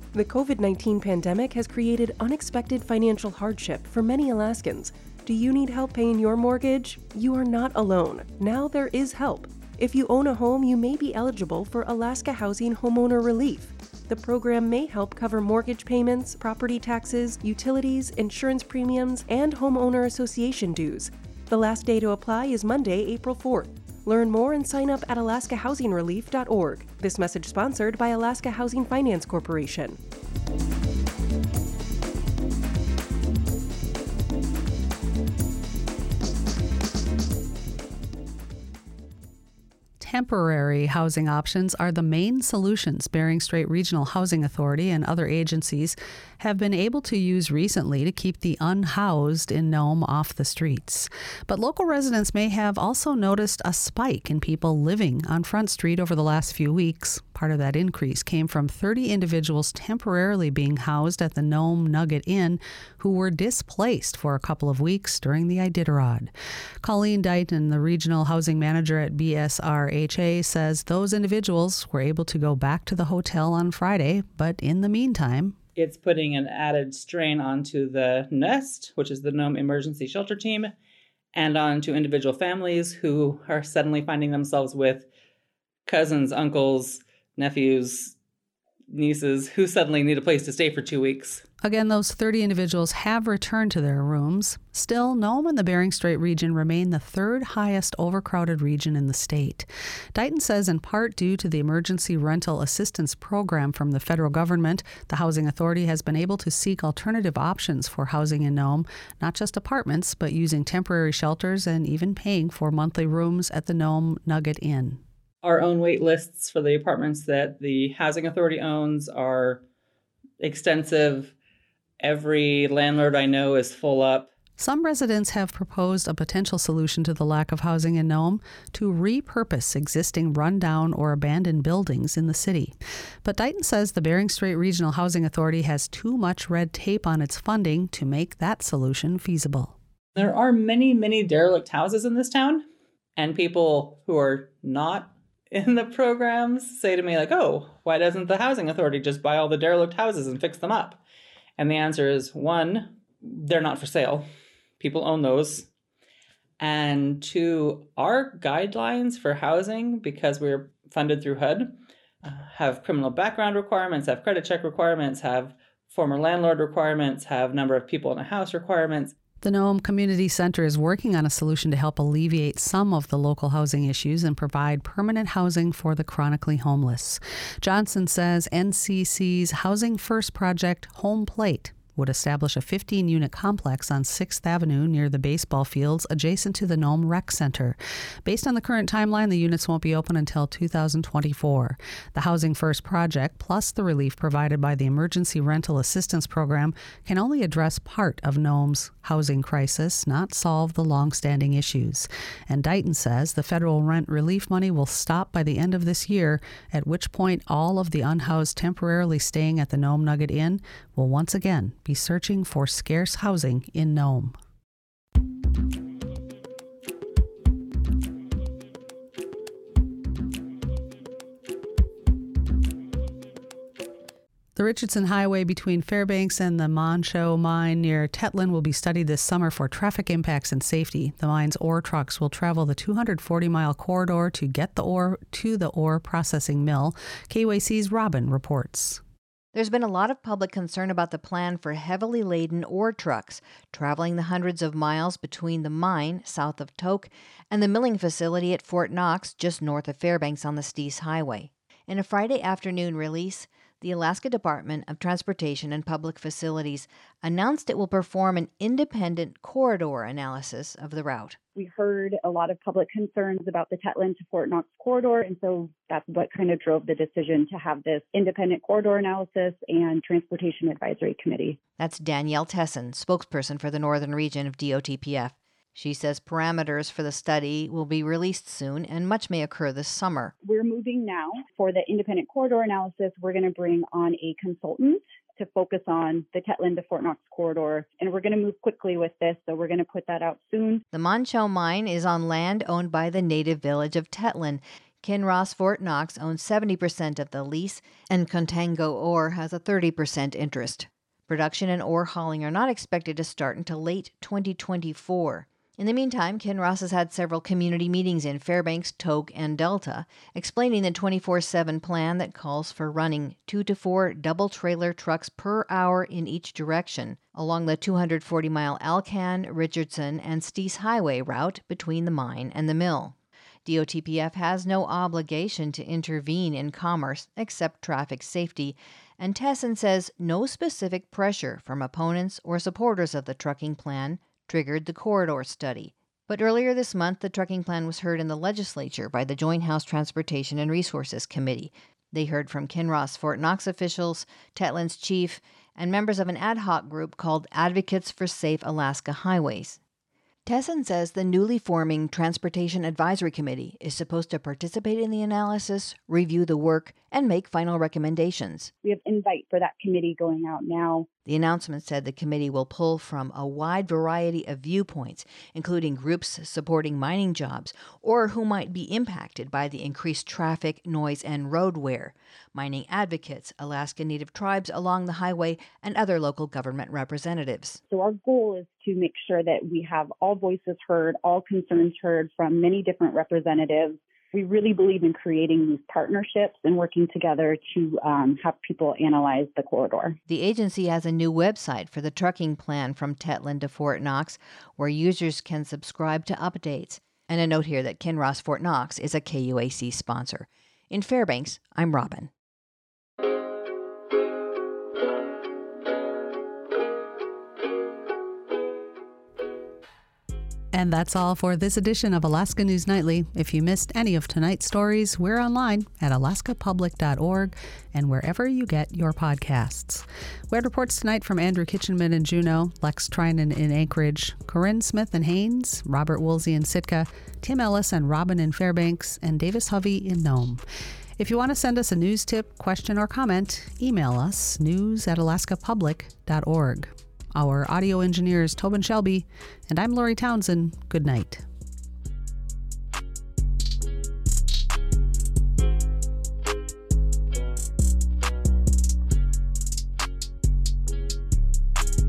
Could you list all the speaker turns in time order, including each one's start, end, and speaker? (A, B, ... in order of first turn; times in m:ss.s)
0:00.1-0:30.0 A
0:40.0-1:15.6 B
1:15.8-1:20.7 C
1:21.3-1:25.1 C
1:25.9-1:28.2 C
1:28.9-1:31.4 C
1:31.6-1:55.0 B
1:55.4-1:59.6 C
2:00.4-2:01.3 C
2:02.0-2:04.3 C
2:04.6-2:19.8 B
2:20.2-2:22.7 C
2:23.2-2:31.0 C
2:31.6-2:34.3 C
2:34.8-2:35.7 C
2:36.6-2:49.2 C
2:49.4-3:34.4 B
3:44.6-3:59.0 B
3:59.5-4:21.4 D
4:21.6-4:31.6 E
4:31.8-4:40.3 D
4:40.4-4:50.8 E
4:50.9-5:49.8 D
5:50.5-5:58.7 D
5:58.8-6:01.1 E
6:01.3-6:17.8 D
6:17.9-6:30.2 E
6:30.3-6:42.3 D
6:50.7-7:10.6 B
7:11.2-7:21.4 B